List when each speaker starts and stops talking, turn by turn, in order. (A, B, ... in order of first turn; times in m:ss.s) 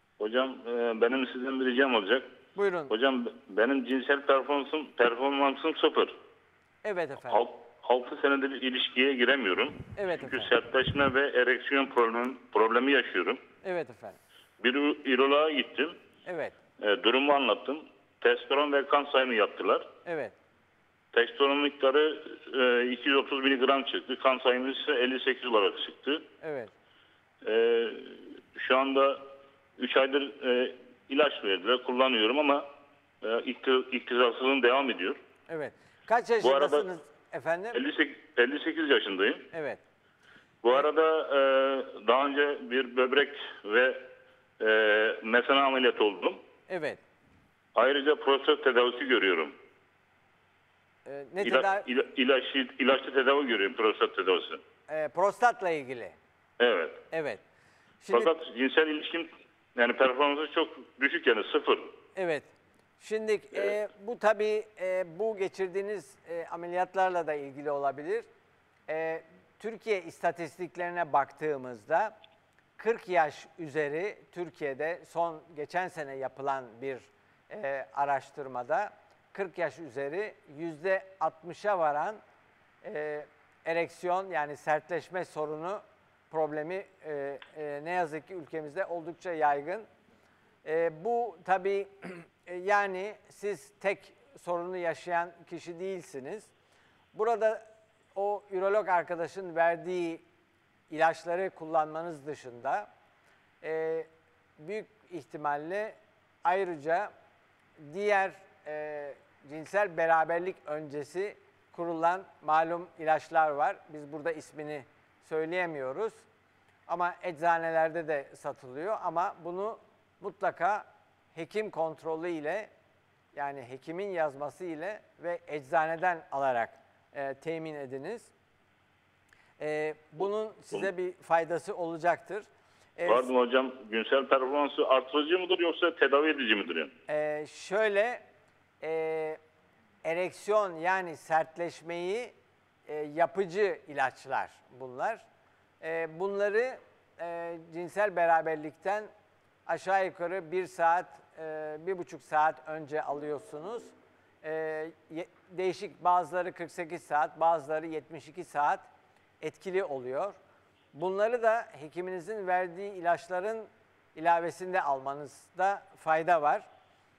0:00.2-0:02.3 A
0:02.6-0:02.9 B
0:02.9-0:06.1 A
0:06.8-0:07.4 B
0:07.3-0:13.4 A
0:09.9-0:10.5 B
0:13.6-0:14.2 B
0:14.6-0:16.0 A
0:16.2-0:16.6 B
0:16.8-0:19.9 A
0:20.0-0:20.4 B
0:21.1-0:26.3 A
0:26.4-0:26.7 B
0:27.4-0:29.3 A
0:29.8-0:32.7 A
0:33.2-0:35.2 A
0:35.5-0:37.8 B
0:36.4-0:36.9 A
0:37.7-0:39.5 A
0:39.5-0:39.8 B
0:40.6-0:46.4 A
0:46.7-0:47.0 B
0:47.8-0:49.5 A
0:51.0-0:51.9 B
0:51.4-0:54.6 A
0:54.9-0:56.2 B
0:56.6-0:57.0 A
0:57.1-0:57.4 B
0:58.0-0:58.3 B
0:58.1-1:01.9 A
1:02.2-1:08.2 B
1:08.9-1:12.2 B
1:12.8-1:22.2 B
1:22.8-1:29.9 B
1:30.6-1:36.5 B
1:37.1-1:37.6 B
1:38.2-1:40.2 B
1:40.9-1:42.9 B
1:43.6-1:47.1 B
1:47.8-1:56.2 B
1:56.9-2:02.7 B
2:03.3-2:08.3 B
2:09.6-2:13.3 B
2:13.1-2:16.9 A
2:17.1-2:18.2 B
2:18.8-2:19.4 B
2:20.0-2:22.3 B
2:22.9-2:25.2 B
2:25.8-2:29.1 B
2:29.7-2:38.9 B
2:39.4-2:40.4 B
2:40.9-2:46.7 B